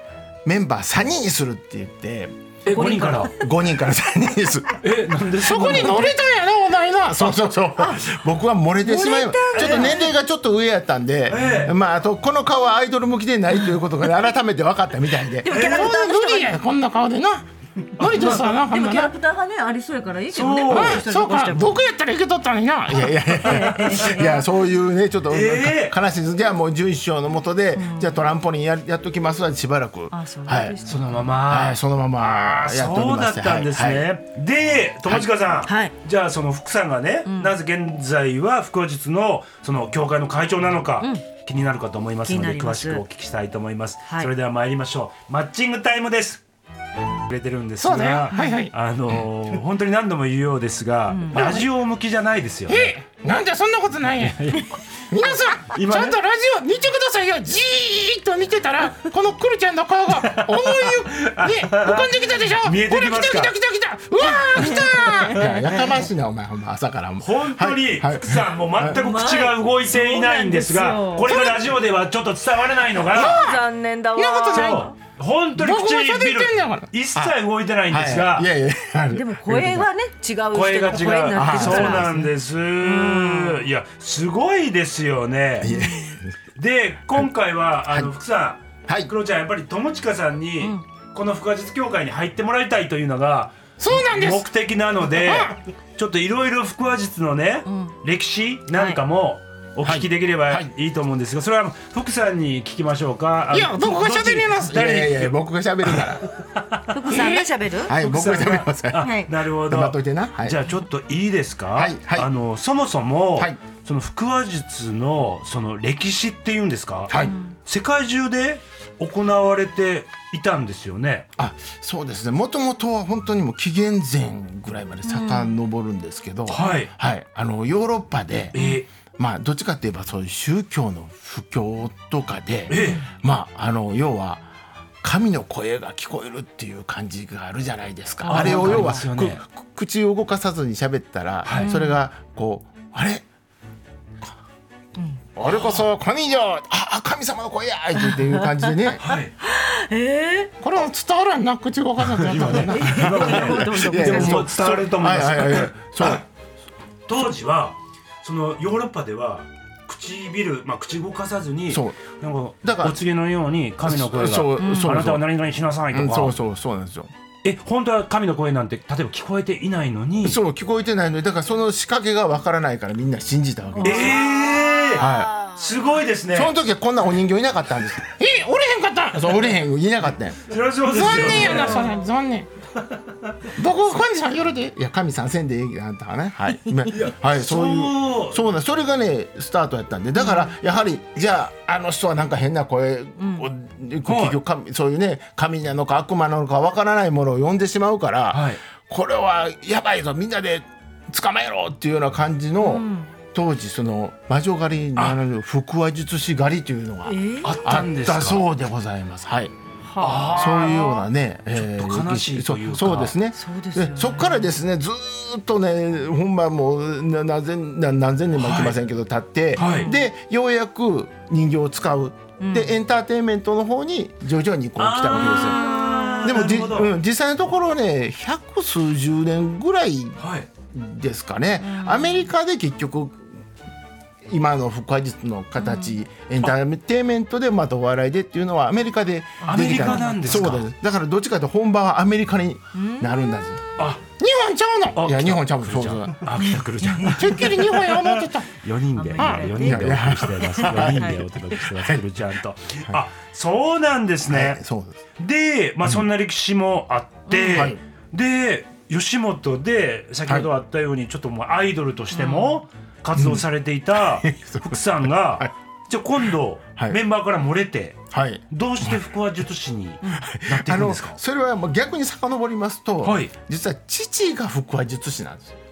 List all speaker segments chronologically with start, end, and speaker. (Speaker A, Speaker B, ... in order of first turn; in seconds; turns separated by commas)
Speaker A: 0.5-4.8, Speaker B: 2.6-3.3, Speaker C: 2.7-3.5, Speaker B: 4.8-6.1, Speaker D: 5.4-7.4, Speaker A: 5.6-6.1, Speaker A: 7.1-15.5, Speaker C: 7.8-8.2, Speaker C: 8.8-10.1, Speaker B: 9.5-10.0, Speaker B: 11.3-11.8, Speaker C: 15.4-16.6, Speaker D: 15.5-19.1, Speaker B: 15.5-15.9, Speaker B: 18.0-18.4, Speaker C: 18.2-21.8, Speaker B: 20.3-21.1, Speaker D: 20.7-23.3, Speaker A: 22.9-30.8, Speaker C: 23.4-24.4, Speaker B: 23.6-24.3, Speaker B: 25.3-25.9, Speaker C: 27.8-28.2, Speaker C: 30.1-31.4, Speaker B: 30.8-46.4, Speaker A: 31.5-34.1, Speaker C: 35.6-35.9, Speaker C: 37.3-37.6, Speaker C: 42.2-43.0, Speaker C: 44.1-44.3, Speaker B: 47.3-52.9, Speaker D: 47.8-48.7, Speaker C: 48.3-48.6, Speaker C: 51.1-51.5, Speaker D: 51.3-51.6, Speaker D: 52.7-65.6, Speaker B: 54.2-54.8, Speaker A: 55.1-55.4, Speaker B: 55.7-56.2, Speaker B: 60.1-63.5, Speaker C: 64.2-65.9, Speaker A: 65.3-69.0, Speaker B: 67.2-73.4, Speaker C: 68.9-71.4, Speaker D: 71.2-71.7, Speaker D: 73.1-73.6, Speaker C: 73.1-75.0, Speaker D: 74.2-74.9, Speaker B: 74.5-78.5, Speaker D: 75.6-76.9, Speaker A: 77.9-79.9, Speaker C: 79.1-83.7, Speaker B: 80.5-85.7, Speaker A: 81.3-82.1, Speaker A: 85.6-86.4, Speaker C: 85.6-86.2, Speaker B: 86.6-106.8, Speaker A: 88.9-89.1, Speaker C: 90.6-90.8, Speaker D: 93.8-94.5, Speaker D: 95.1-95.5, Speaker C: 97.7-98.0, Speaker C: 98.7-99.0, Speaker A: 99.8-100.7, Speaker D: 103.5-104.8, Speaker A: 104.7-106.3, Speaker C: 106.9-107.9, Speaker D: 107.1-107.5, Speaker A: 107.8-109.1, Speaker B: 107.9-117.1, Speaker C: 109.0-109.3, Speaker A: 109.7-110.6, Speaker A: 111.7-112.3, Speaker A: 117.1-117.3, Speaker C: 117.1-117.6, Speaker B: 117.7-121.3, Speaker A: 121.4-128.6, Speaker C: 125.0-125.6, Speaker B: 126.5-126.9, Speaker B: 128.5-128.9, Speaker C: 128.6-128.8, Speaker A: 129.2-134.5, Speaker B: 132.7-133.0, Speaker C: 132.7-133.1, Speaker A: 135.0-143.2, Speaker C: 138.2-139.0, Speaker B: 138.3-139.4, Speaker B: 141.4-141.7, Speaker C: 141.5-142.0, Speaker C: 145.0-145.2, Speaker A: 145.3-149.0, Speaker C: 148.0-150.5, Speaker B: 149.0-149.3, Speaker D: 150.6-153.1, Speaker B: 152.1-156.2, Speaker C: 152.7-154.5, Speaker A: 152.8-156.2, Speaker B: 157.1-166.4, Speaker A: 161.7-162.0, Speaker A: 162.6-163.0, Speaker A: 163.8-165.2, Speaker C: 164.6-164.9, Speaker A: 165.9-167.1, Speaker B: 167.4-170.4, Speaker A: 170.2-174.3, Speaker C: 173.8-175.7, Speaker B: 173.8-176.5, Speaker A: 174.9-175.3, Speaker A: 176.3-178.1, Speaker D: 178.2-179.4, Speaker A: 179.1-180.5, Speaker B: 180.5-181.9, Speaker D: 180.9-182.5, Speaker D: 183.6-184.8, Speaker A: 184.8-209.5, Speaker B: 186.9-188.4, Speaker C: 190.2-190.5, Speaker C: 193.2-193.5, Speaker B: 194.1-194.4, Speaker B: 198.3-198.6, Speaker C: 202.6-203.1, Speaker C: 207.1-207.7, Speaker B: 207.4-208.5, Speaker C: 209.9-210.8, Speaker B: 210.0-213.2, Speaker A: 210.3-225.7, Speaker C: 213.3-214.5, Speaker B: 218.4-218.8, Speaker C: 219.6-220.1, Speaker B: 219.6-219.9, Speaker C: 222.4-222.7, Speaker B: 224.8-226.9, Speaker C: 225.1-226.7, Speaker A: 226.2-233.3, Speaker B: 230.2-230.5, Speaker C: 231.6-232.3, Speaker A: 234.2-243.6, Speaker C: 235.6-236.0, Speaker C: 239.4-240.5, Speaker B: 239.5-240.7, Speaker C: 242.7-243.2, Speaker D: 244.2-245.0, Speaker B: 244.9-254.6, Speaker A: 245.0-246.5, Speaker C: 246.4-247.3, Speaker A: 247.0-247.5, Speaker D: 247.1-248.5, Speaker C: 248.9-251.4, Speaker D: 249.2-249.6, Speaker A: 249.6-252.0, Speaker A: 254.3-255.0, Speaker B: 255.2-271.2, Speaker C: 257.3-257.7, Speaker A: 257.5-257.8, Speaker C: 262.1-262.6, Speaker A: 263.1-265.5, Speaker A: 268.1-269.0, Speaker A: 270.2-275.6, Speaker B: 273.0-273.3